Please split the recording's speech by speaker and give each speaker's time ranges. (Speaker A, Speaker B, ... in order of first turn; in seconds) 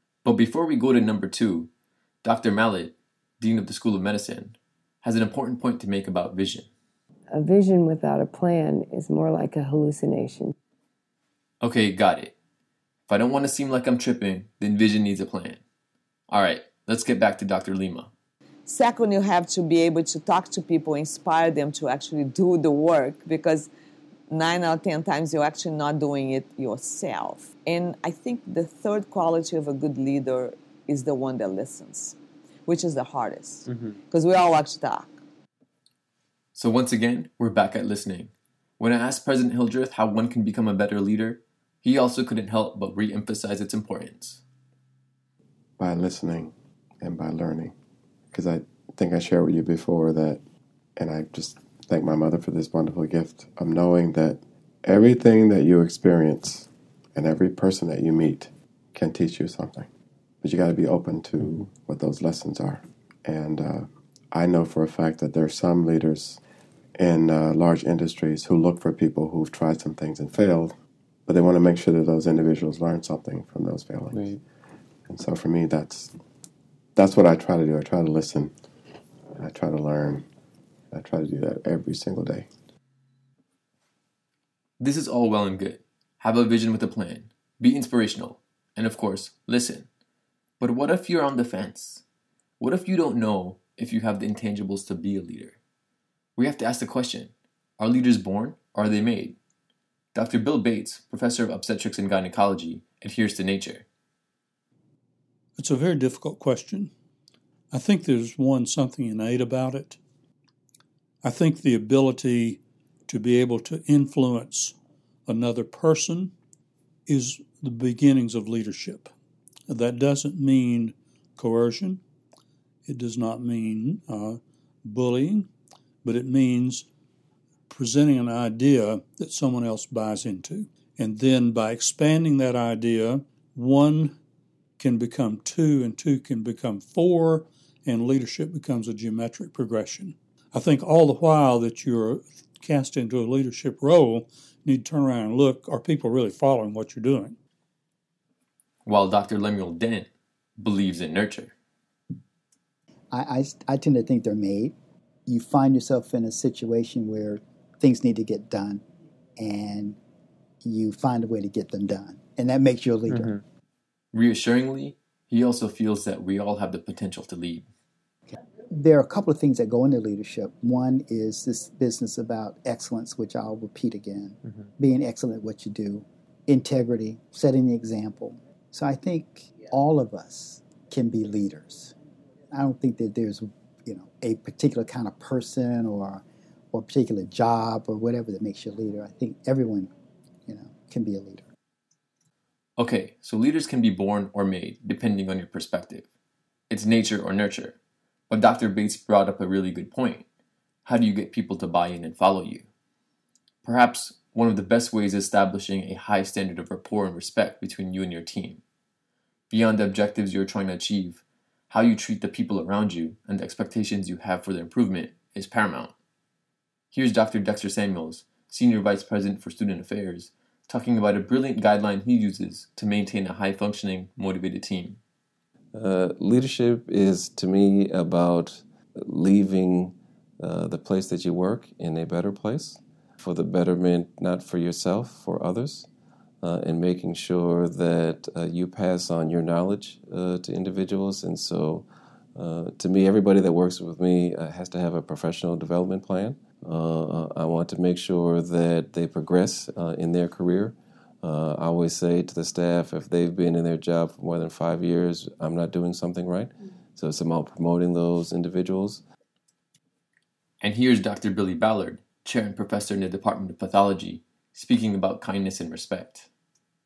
Speaker A: 0.2-1.7, 2.2-6.7, 11.6-12.3, 13.1-15.6, 16.3-18.1, 36.5-44.4, 84.8-89.9, 90.6-92.0, 92.6-95.6, 96.4-99.4, 100.1-103.8, 148.8-151.5, 164.1-167.7, 192.8-196.1, 196.7-197.8, 198.3-200.2, 200.8-202.7, 203.6-208.6, 209.5-215.9, 216.9-225.0, 260.6-266.3
Speaker B: 7.3-10.5
Speaker C: 18.7-23.7, 24.3-35.1
Speaker D: 45.8-47.7, 48.3-50.4, 51.0-59.9, 60.4-66.4, 67.0-70.7, 71.3-74.4, 75.1-76.1, 77.0-78.5, 79.4-80.2, 80.9-82.5
Speaker E: 105.6-106.9, 107.7-110.0, 111.2-114.7, 115.3-116.3, 117.1-119.1, 119.7-122.0, 122.8-125.5, 126.0-126.9, 127.7-134.2, 134.8-147.4
Speaker F: 153.1-154.7, 155.3-158.8, 159.4-159.9, 160.6-163.3, 168.7-181.9, 182.5-186.2, 186.7-189.9, 190.5-191.4
Speaker G: 225.7-235.9, 236.4-241.8, 242.3-259.0